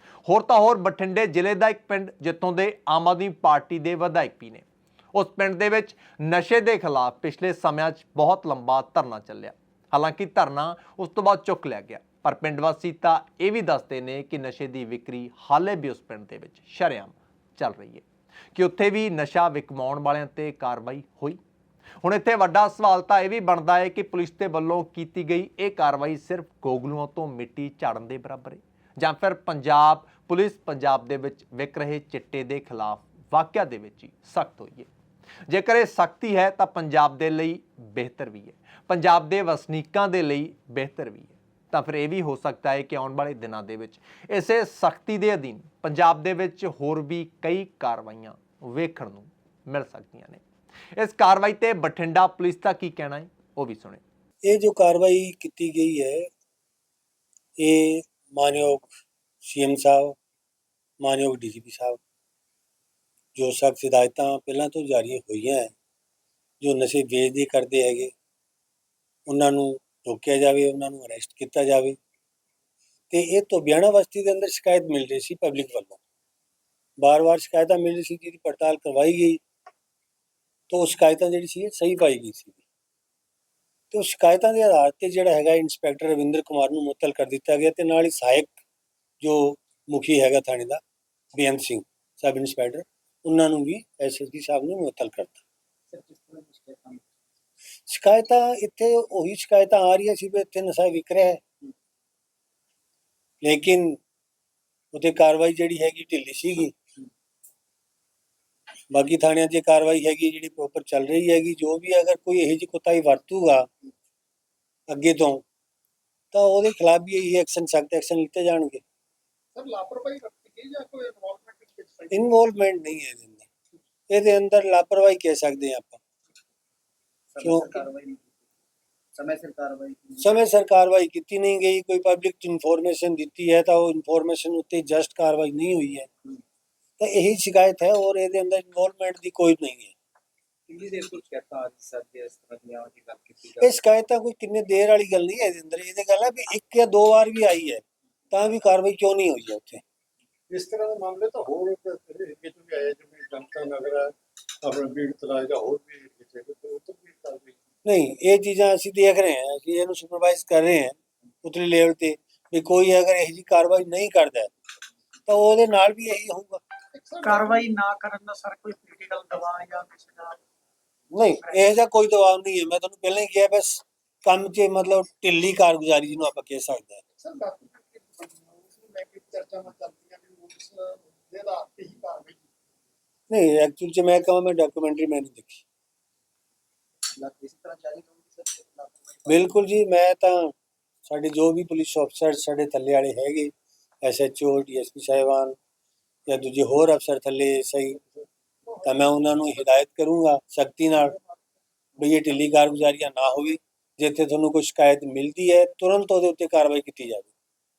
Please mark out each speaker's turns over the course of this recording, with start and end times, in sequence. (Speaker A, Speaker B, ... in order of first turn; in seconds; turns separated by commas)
Speaker A: 0.2-21.4, Speaker A: 22.0-34.9, Speaker A: 35.5-50.4, Speaker A: 50.9-54.0, Speaker B: 54.4-56.3, Speaker B: 57.6-58.9, Speaker B: 59.4-60.2, Speaker B: 61.0-62.0, Speaker B: 63.3-65.7, Speaker B: 66.6-68.1, Speaker B: 69.2-72.0, Speaker B: 73.1-76.0, Speaker B: 77.0-79.4, Speaker B: 80.7-82.6, Speaker B: 83.9-88.6, Speaker B: 89.2-90.8, Speaker B: 91.3-95.4, Speaker C: 95.9-97.0, Speaker B: 97.9-101.4, Speaker B: 103.4-104.0, Speaker B: 104.9-106.7, Speaker B: 108.9-113.7, Speaker B: 114.9-115.4, Speaker B: 116.3-118.8, Speaker D: 119.5-122.3, Speaker B: 122.1-123.5, Speaker B: 124.1-126.0, Speaker C: 127.3-128.3, Speaker B: 127.4-127.8, Speaker C: 129.1-130.3, Speaker B: 130.2-136.1, Speaker B: 137.0-139.9, Speaker C: 140.7-143.8, Speaker B: 143.6-149.8, Speaker D: 150.5-157.6, Speaker B: 157.8-164.5, Speaker B: 165.3-166.6, Speaker D: 166.9-167.6, Speaker E: 167.2-170.4, Speaker B: 171.1-177.0, Speaker D: 177.2-182.5, Speaker B: 183.3-185.6, Speaker C: 187.1-189.5, Speaker B: 189.2-190.5, Speaker B: 191.1-195.6, Speaker B: 196.3-198.0, Speaker B: 198.8-201.2, Speaker B: 202.0-207.3